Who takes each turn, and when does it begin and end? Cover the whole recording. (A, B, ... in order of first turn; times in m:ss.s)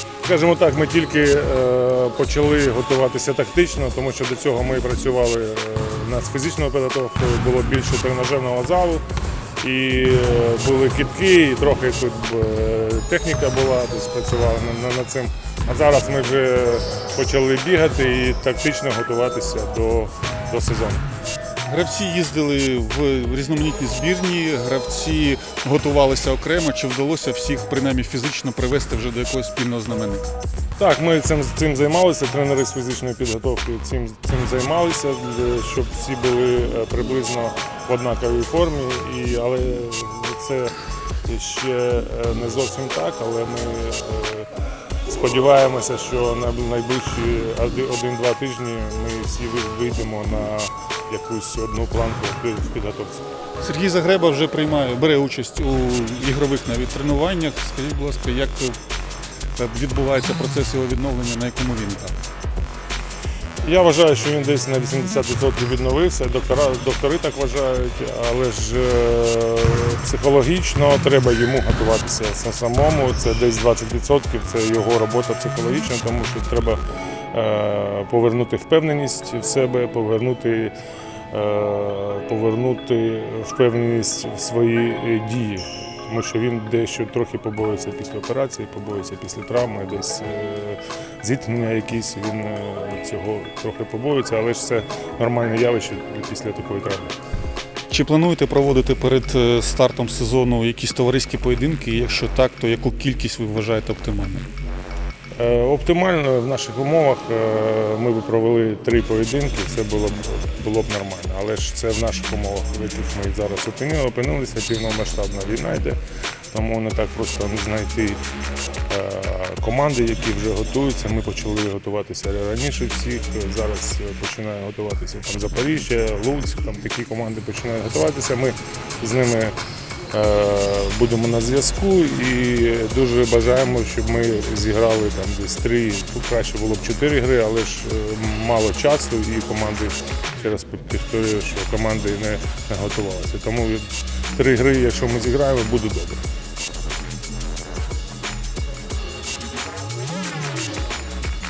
0:00.2-0:09.0 A
0:09.6-0:21.1 A
0:21.6-0:30.2 B
0:30.8-0:44.5 A
0:45.1-0:53.2 A
0:53.6-0:58.8 B
0:59.6-1:02.1 B
1:03.6-1:16.8 A
1:17.3-1:20.7 A
1:21.3-1:37.2 A
1:37.9-1:44.5 B
1:45.4-1:56.0 A
1:56.5-1:58.2 A
1:58.9-2:09.6 A
2:10.1-2:26.2 A